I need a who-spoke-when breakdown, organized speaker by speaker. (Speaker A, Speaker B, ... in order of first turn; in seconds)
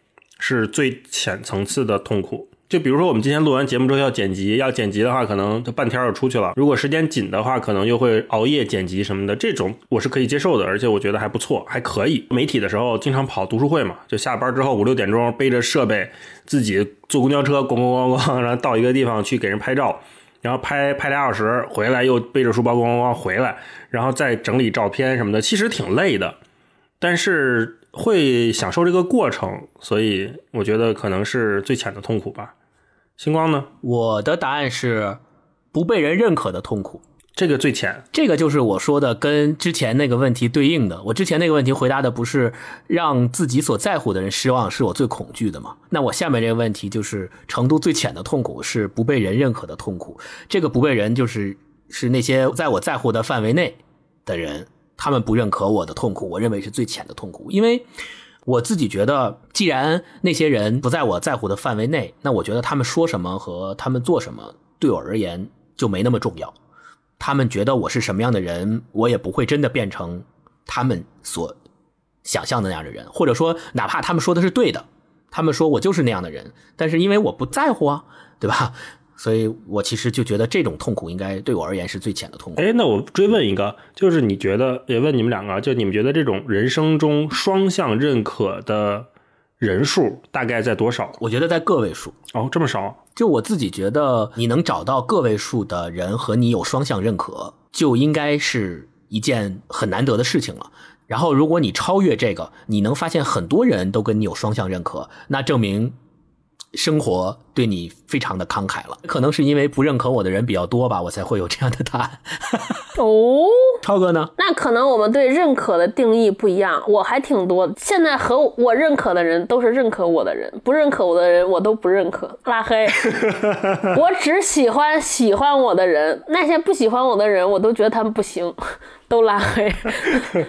Speaker A: 0.4-26.4, 27.0-32.5, 33.2-33.7, 37.4-38.0, 82.6-89.1, 89.6-91.2, 92.3-93.0, 123.2-123.8
Speaker B: 33.8-35.2, 35.7-37.0, 38.1-57.9, 58.5-66.5, 67.2-71.5, 72.2-82.6, 91.2-92.1, 93.2-105.9, 106.7-112.8, 113.8-114.3
Speaker C: 112.9-113.8, 114.4-123.2, 123.9-128.6, 129.1-130.3